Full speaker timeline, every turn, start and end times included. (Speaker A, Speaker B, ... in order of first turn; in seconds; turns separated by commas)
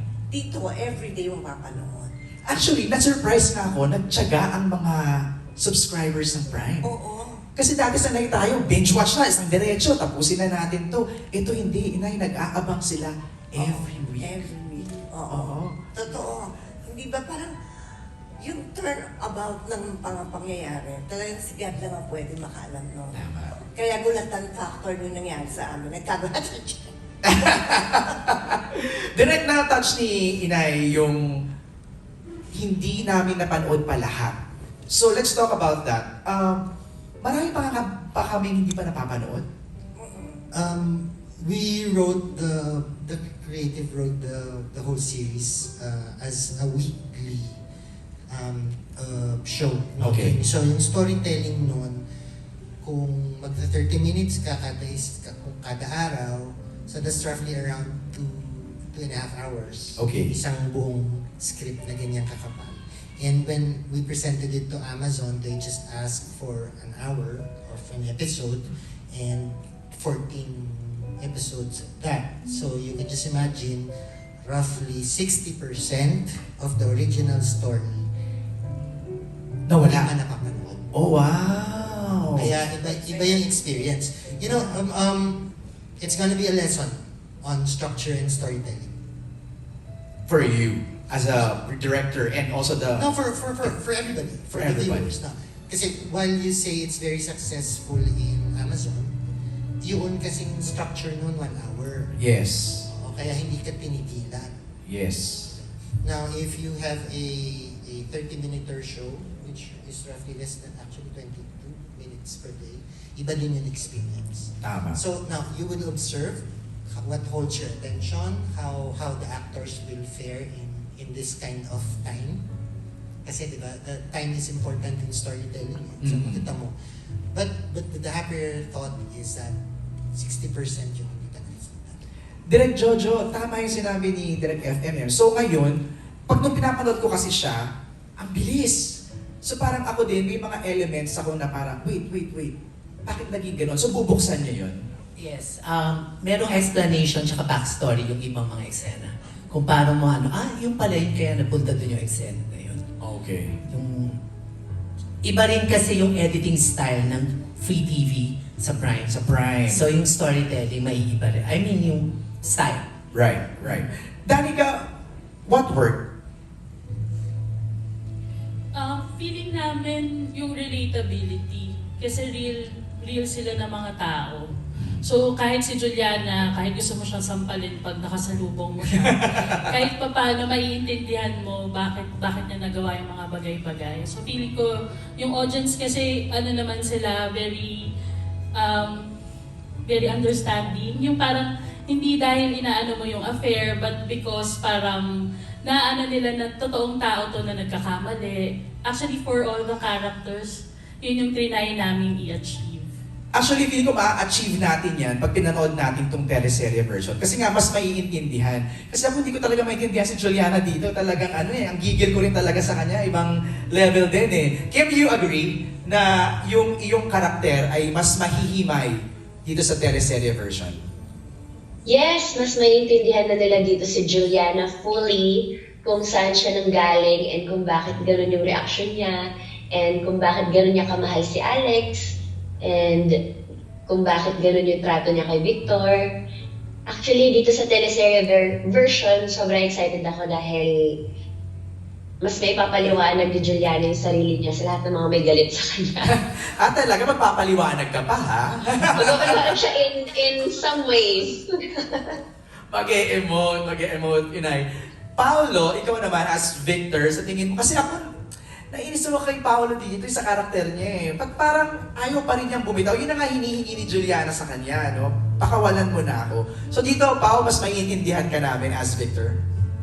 Speaker A: 0.3-2.1, Speaker B: 2.5-5.0, Speaker B: 5.6-6.9, Speaker A: 6.8-7.4, Speaker B: 7.6-14.4, Speaker A: 13.6-17.5, Speaker B: 15.3-15.8, Speaker A: 18.4-23.1, Speaker B: 23.1-23.6, Speaker A: 23.7-26.9, Speaker B: 27.2-31.2, Speaker B: 32.5-34.4, Speaker B: 34.9-36.6, Speaker B: 37.2-39.4, Speaker A: 40.0-40.4, Speaker C: 40.5-47.6, Speaker C: 48.3-52.0, Speaker B: 50.0-50.4, Speaker C: 52.8-73.9, Speaker B: 60.0-60.3, Speaker C: 74.5-78.0, Speaker B: 79.7-80.1, Speaker C: 79.8-80.9, Speaker B: 80.9-82.5, Speaker C: 82.4-85.4, Speaker C: 86.0-88.9, Speaker B: 90.3-93.1, Speaker C: 91.1-91.5, Speaker C: 93.0-99.2, Speaker B: 94.5-95.1, Speaker C: 99.8-102.2, Speaker B: 102.2-102.9, Speaker C: 102.9-104.5, Speaker B: 104.8-105.6, Speaker C: 106.0-116.4, Speaker B: 114.6-115.0, Speaker C: 117.0-122.4, Speaker C: 123.2-126.7, Speaker B: 126.0-126.5, Speaker C: 127.3-129.6, Speaker C: 130.2-132.0, Speaker B: 132.5-135.8, Speaker B: 136.3-137.6, Speaker B: 138.2-138.8, Speaker B: 139.4-144.8, Speaker D: 145.2-152.8, Speaker B: 153.0-153.6, Speaker D: 153.7-154.2, Speaker D: 155.2-159.1, Speaker B: 159.1-159.8, Speaker D: 159.7-162.9, Speaker B: 163.1-164.9, Speaker B: 165.5-166.1, Speaker E: 168.8-174.5, Speaker B: 174.8-175.0, Speaker E: 175.0-184.7, Speaker B: 179.1-179.6, Speaker E: 185.2-187.7, Speaker E: 188.6-189.0, Speaker E: 189.9-195.1, Speaker E: 195.7-202.9, Speaker B: 203.3-220.8, Speaker F: 221.9-229.2, Speaker F: 229.7-232.1, Speaker F: 232.6-233.1, Speaker F: 233.9-236.0, Speaker F: 236.9-240.8, Speaker F: 242.2-246.1, Speaker B: 246.1-249.6, Speaker F: 249.0-252.1, Speaker B: 252.7-254.7, Speaker B: 255.2-258.0, Speaker B: 258.7-269.4